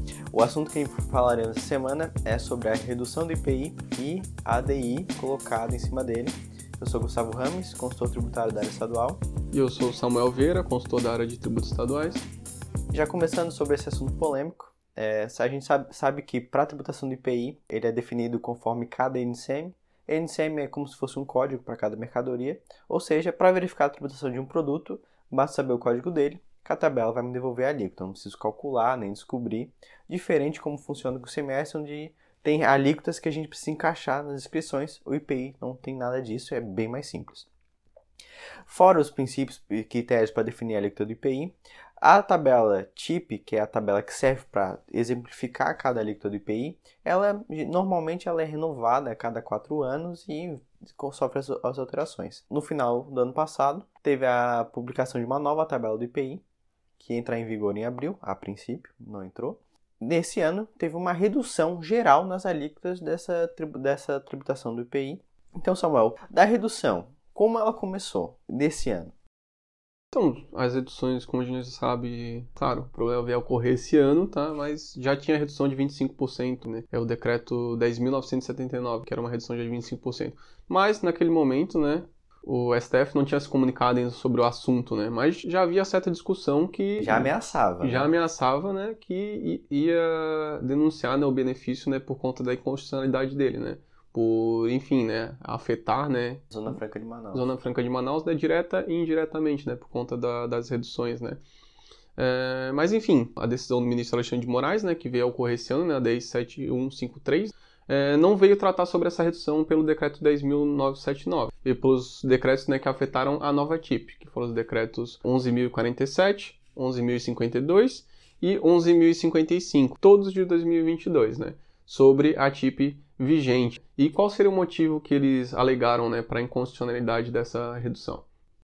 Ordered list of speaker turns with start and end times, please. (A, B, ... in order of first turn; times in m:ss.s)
0:00.3-0:09.2 A
0:09.5-0:12.3 B
0:12.9-0:37.5 A
0:38.7-0:56.4 A
0:57.0-1:09.1 A
1:10.1-1:36.8 B
1:27.0-1:28.1 A
1:36.5-1:37.5 A
1:37.3-1:41.4 B
1:42.2-2:08.2 B